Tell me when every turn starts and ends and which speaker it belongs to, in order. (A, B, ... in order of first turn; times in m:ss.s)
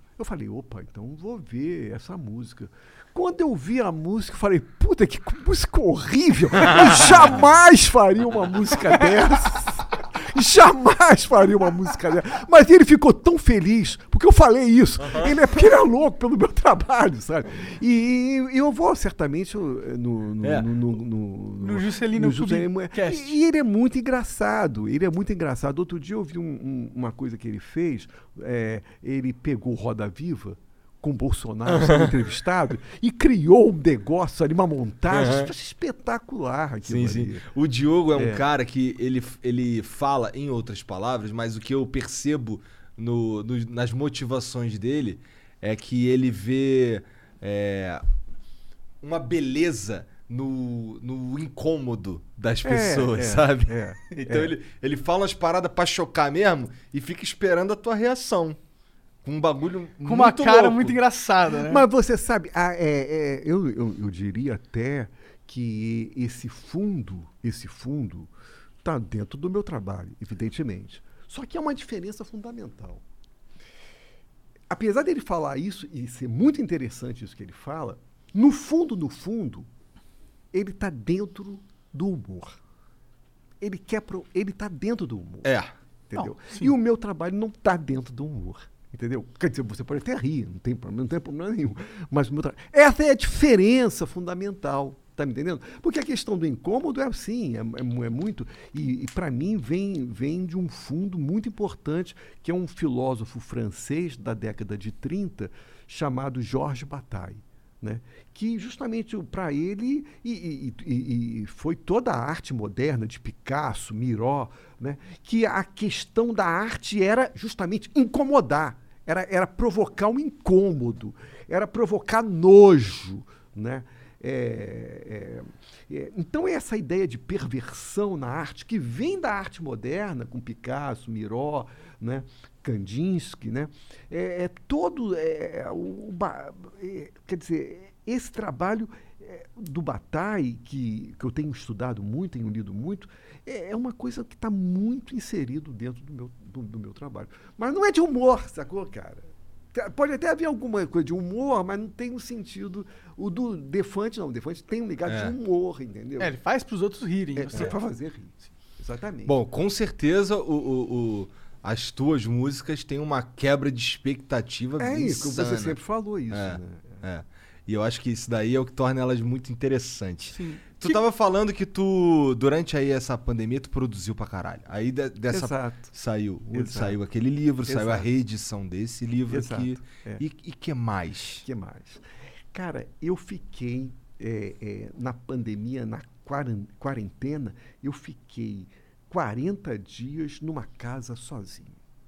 0:00.2-0:37.4 A
0:20.4-0:20.7 B
0:21.6-0:23.4 C
0:31.7-0:32.1 B
0:35.1-0:35.5 B
0:36.8-0:48.0 B
0:38.2-0:38.4 A
0:49.0-0:58.6 B
0:52.6-0:54.5 A
0:59.2-1:01.0 B
1:00.0-1:01.8 C
1:01.6-1:08.3 A
1:08.8-1:13.0 A
1:14.7-1:19.7 A
1:20.5-1:22.6 A
1:23.6-1:25.6 A
1:25.4-1:25.7 B
1:26.1-2:36.3 A
1:26.2-1:26.7 C
2:35.1-2:35.4 B
2:36.2-2:37.7 C
2:37.4-2:39.4 A
2:39.3-2:45.8 B
2:44.8-2:47.0 A
2:46.3-3:01.5 B
2:50.3-2:50.7 C
2:55.3-2:55.9 A
2:56.5-2:57.0 A
2:57.7-2:58.1 A
2:59.3-3:00.2 A
3:01.4-3:11.8 A